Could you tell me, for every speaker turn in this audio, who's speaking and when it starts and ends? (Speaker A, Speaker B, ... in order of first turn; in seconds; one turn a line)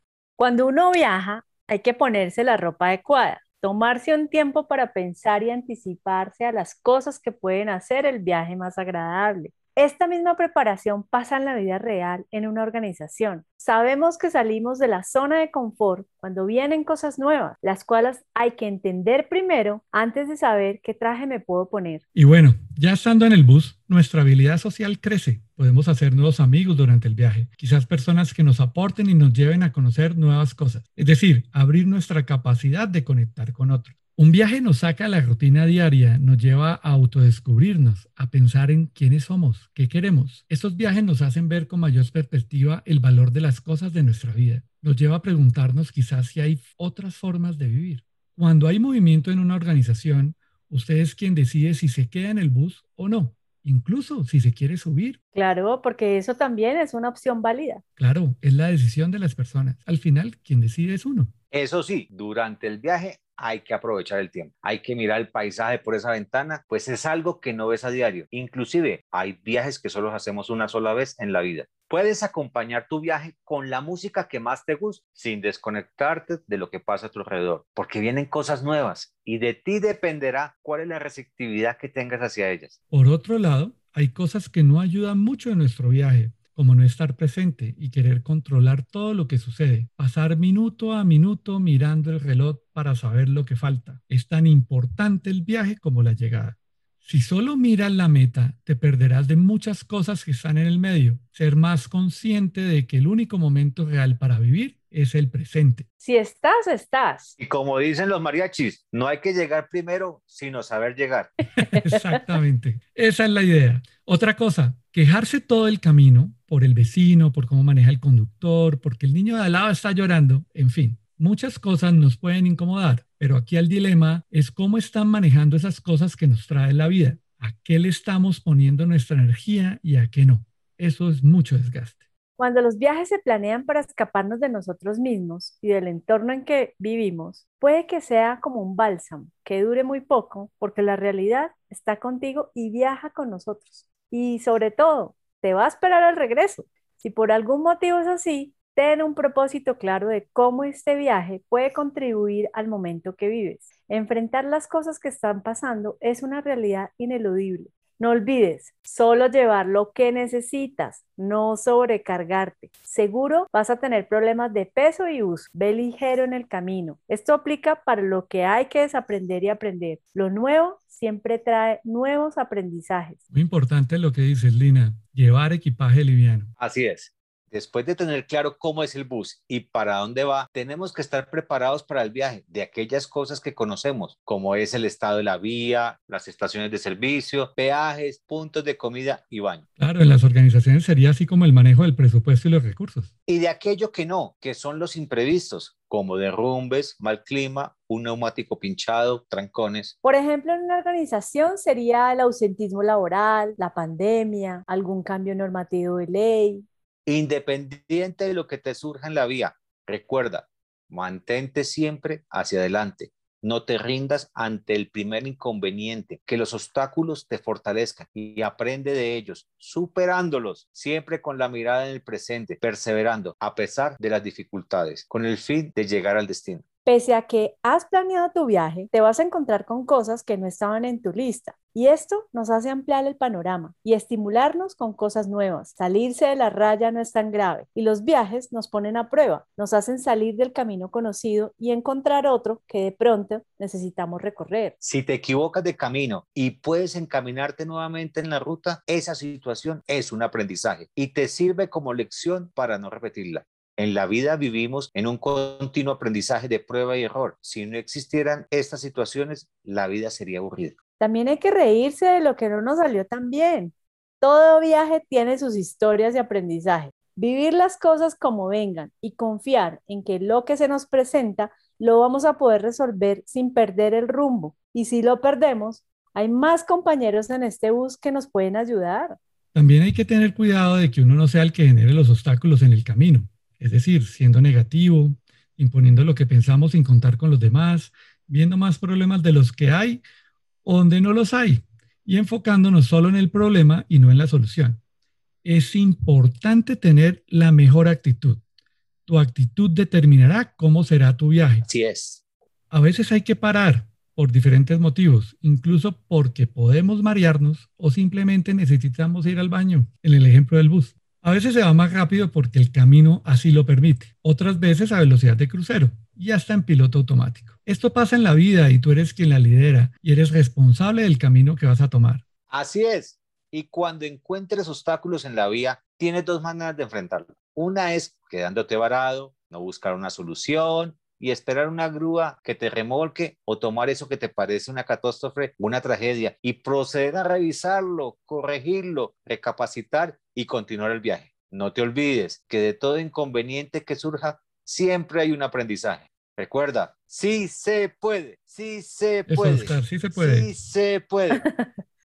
Speaker A: 0.4-22.0
Speaker B: 22.1-55.2
Speaker A: 55.3-57.8
Speaker B: 58.0-61.3
Speaker C: 61.5-82.7
Speaker B: 82.9-105.8
Speaker A: 106.0-107.3
Speaker C: 107.4-111.3
Speaker B: 111.6-132.0
Speaker A: 132.4-173.2
Speaker B: 173.3-176.5
Speaker C: 176.6-189.6
Speaker B: 189.8-193.1
Speaker C: 193.3-199.9
Speaker A: 200.0-206.7
Speaker C: 207.1-226.6
Speaker A: 226.8-244.7
Speaker C: 244.8-260.7
Speaker A: 261.0-279.2
Speaker B: 279.5-290.0
Speaker B: 290.6-294.8
Speaker B: 295.4-298.4
Speaker B: 299.1-301.6
Speaker C: 301.6-302.2
Speaker B: 302.7-322.2
Speaker C: 322.5-351.4
Speaker B: 349.3-350.5
Speaker A: 351.3-351.7